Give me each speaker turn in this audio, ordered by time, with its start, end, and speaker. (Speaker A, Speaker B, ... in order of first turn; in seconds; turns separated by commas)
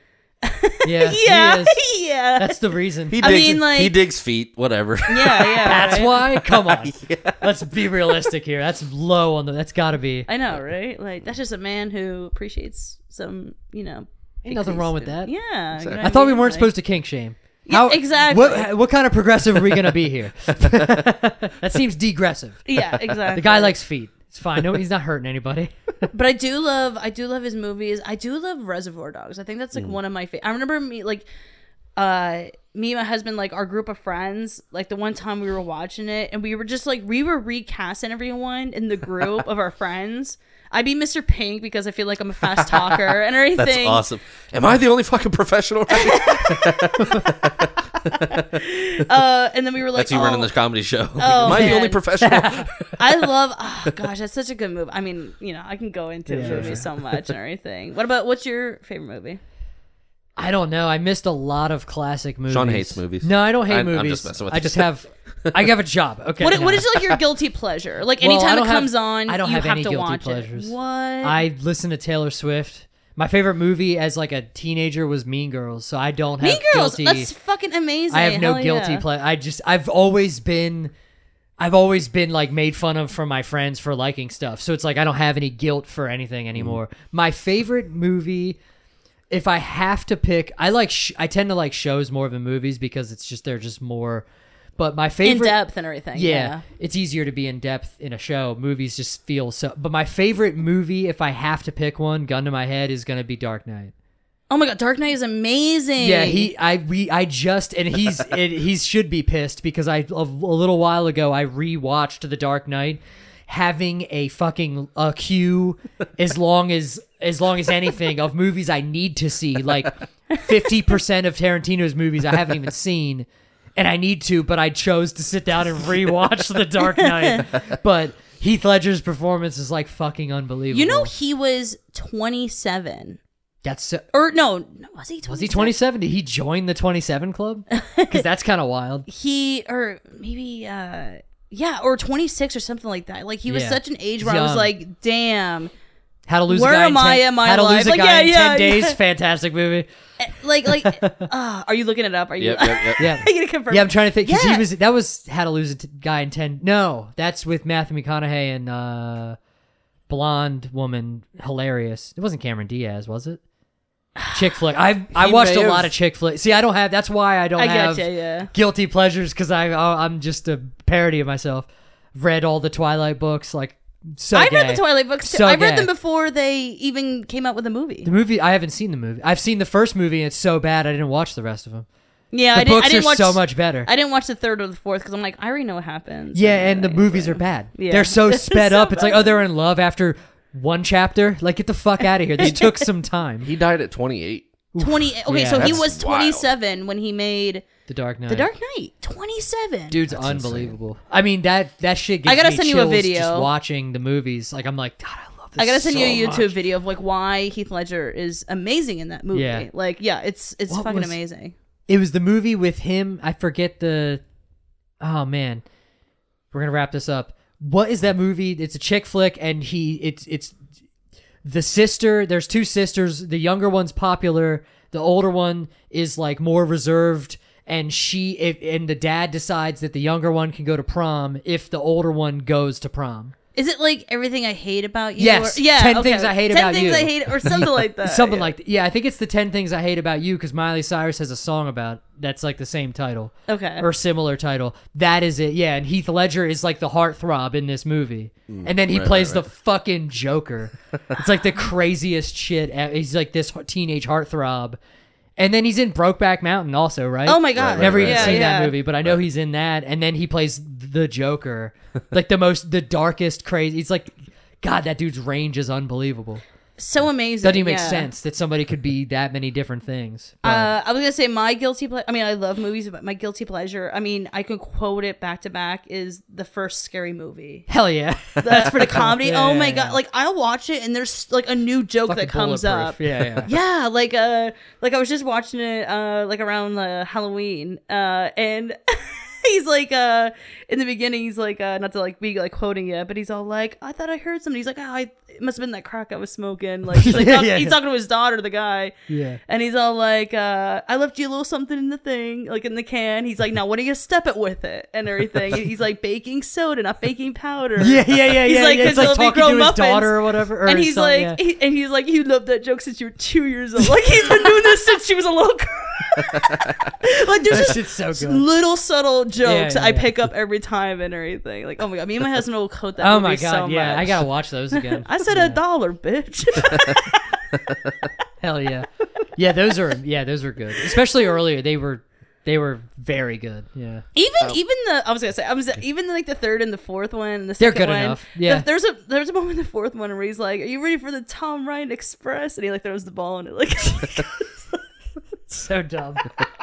Speaker A: 0.4-4.0, Speaker B: 0.8-3.4, Speaker C: 3.1-8.1, Speaker A: 5.1-6.2, Speaker B: 5.6-10.3, Speaker A: 10.3-16.7, Speaker B: 14.5-22.8, Speaker C: 15.7-16.2, Speaker A: 17.6-18.7, Speaker A: 22.6-23.7, Speaker B: 23.3-26.1, Speaker A: 26.1-31.3, Speaker A: 31.9-44.0, Speaker C: 42.5-48.6, Speaker A: 45.9-47.3, Speaker A: 48.6-52.0, Speaker C: 49.9-53.3, Speaker B: 51.4-52.7, Speaker A: 53.0-59.4, Speaker B: 56.3-56.9, Speaker C: 56.4-57.0, Speaker B: 60.4-66.9, Speaker C: 62.5-64.9, Speaker A: 66.4-71.4, Speaker B: 68.2-77.3, Speaker A: 76.4-79.0, Speaker B: 78.1-80.9, Speaker B: 81.6-88.6, Speaker B: 89.3-94.2, Speaker B: 94.8-95.6, Speaker A: 95.2-96.6, Speaker B: 96.1-103.9, Speaker A: 104.5-106.5, Speaker B: 106.0-131.1, Speaker A: 127.0-127.4, Speaker A: 130.7-133.2, Speaker B: 133.6-134.0, Speaker A: 134.1-135.7, Speaker B: 135.3-139.1, Speaker A: 137.7-138.2, Speaker A: 139.1-145.7, Speaker B: 143.5-144.7, Speaker B: 146.3-149.9, Speaker A: 146.5-149.0, Speaker A: 150.2-154.7, Speaker B: 150.7-151.3, Speaker C: 152.4-153.0, Speaker B: 153.0-159.4, Speaker B: 160.1-163.4, Speaker B: 164.3-175.9, Speaker A: 165.1-165.9, Speaker A: 167.6-168.5, Speaker A: 174.3-178.1, Speaker B: 178.0-181.9, Speaker A: 182.3-189.4, Speaker B: 182.5-183.9, Speaker B: 186.3-193.5, Speaker A: 192.4-192.8, Speaker C: 193.4-194.5, Speaker B: 194.7-195.8, Speaker A: 194.8-197.7, Speaker C: 195.6-196.5, Speaker B: 197.9-198.5, Speaker A: 198.3-200.0, Speaker B: 199.9-206.5, Speaker C: 200.1-200.8, Speaker A: 202.2-203.5, Speaker A: 205.6-211.5, Speaker B: 209.3-209.7, Speaker B: 210.7-211.2, Speaker B: 211.9-214.2, Speaker B: 215.0-215.6, Speaker B: 216.5-220.6, Speaker B: 221.4-233.3, Speaker A: 233.5-238.5, Speaker B: 235.2-254.8, Speaker A: 243.5-243.8, Speaker C: 248.5-249.4, Speaker B: 255.4-266.4, Speaker A: 257.2-258.7, Speaker C: 257.5-258.5, Speaker A: 266.8-268.1, Speaker B: 267.4-270.7, Speaker A: 270.4-277.7, Speaker B: 277.7-280.0, Speaker A: 278.4-327.4, Speaker B: 282.1-283.5, Speaker B: 297.0-297.8, Speaker B: 299.1-299.4, Speaker B: 307.8-311.4, Speaker B: 317.5-318.4, Speaker B: 319.4-320.1, Speaker B: 323.0-325.6, Speaker B: 328.4-334.0, Speaker A: 334.1-344.7, Speaker B: 337.6-338.6, Speaker B: 345.5-346.3